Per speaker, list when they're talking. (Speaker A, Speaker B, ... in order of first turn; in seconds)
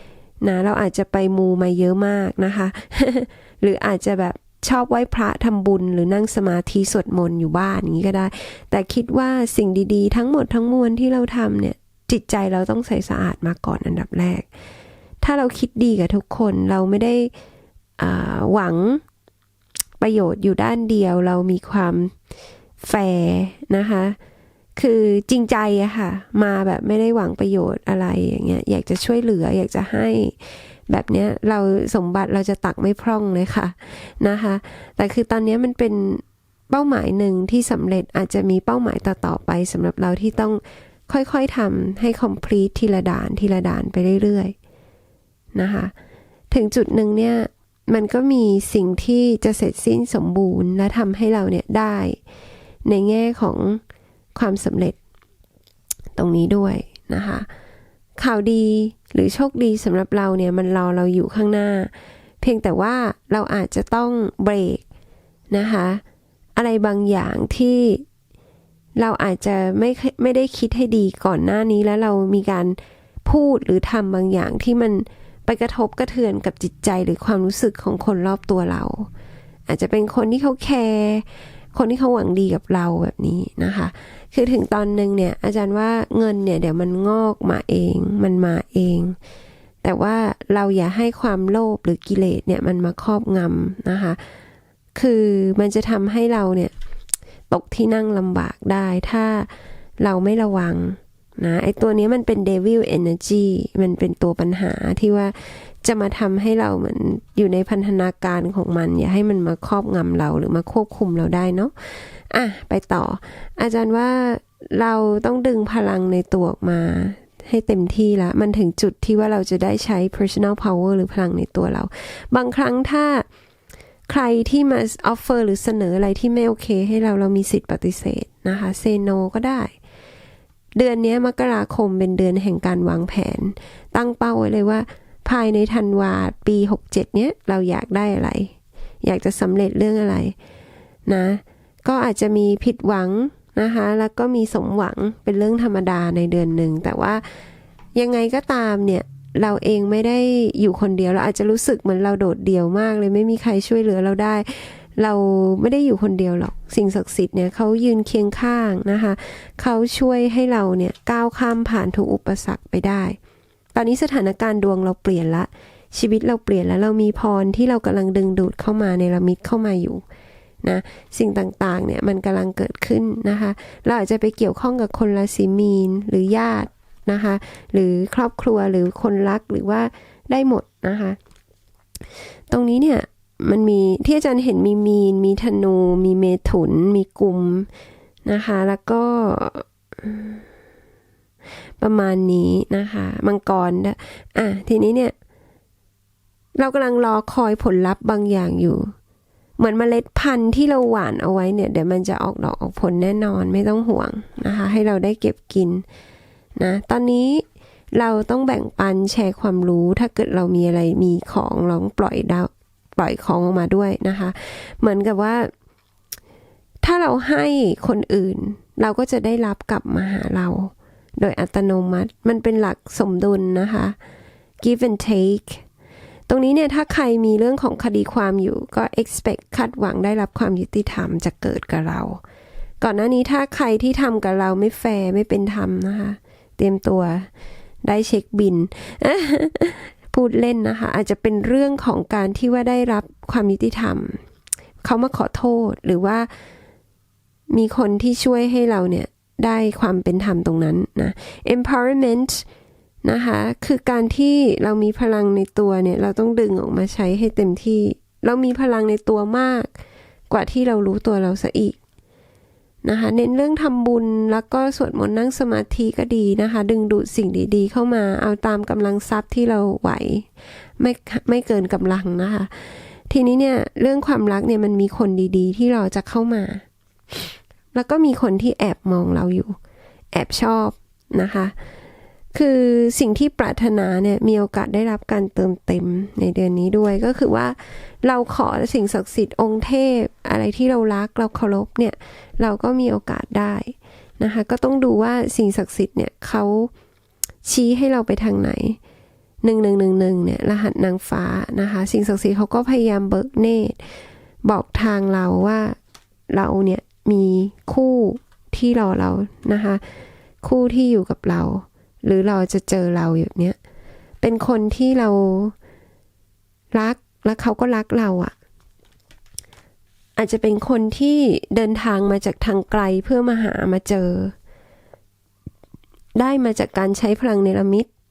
Speaker A: 0.4-14.5, 15.2-17.3, 18.0-19.0, 20.0-22.1, 22.8-24.2, 24.8-44.5, 45.5-45.9, 46.5-52.2, 52.8-53.8, 54.3-55.0, 56.1-57.5, 58.2-64.8, 65.5-66.0, 66.6-68.0, 69.0-79.1, 79.7-89.2, 89.8-94.2, 94.9-96.7, 97.5-111.7, 112.3-123.2, 124.1-129.7, 130.8-140.3, 141.1-147.2, 147.9-163.2, 163.7-170.0, 170.6-181.2, 182.5-187.7, 188.2-190.4, 191.8-195.1, 196.6-198.9, 199.6-205.8, 206.6-215.5, 216.8-224.0, 224.6-225.6, 226.3-232.2, 232.8-237.3, 237.8-244.2, 244.8-246.3, 247.5-252.4, 253.0-259.7, 260.3-261.8, 262.8-270.3, 270.8-276.6, 277.7-279.6, 280.1-281.5, 282.3-296.7, 297.4-298.8, 299.4-303.9, 304.4-305.8, 306.3-309.8, 310.4-313.6, 314.2-315.5, 316.7-318.3, 320.2-324.3, 326.1-327.9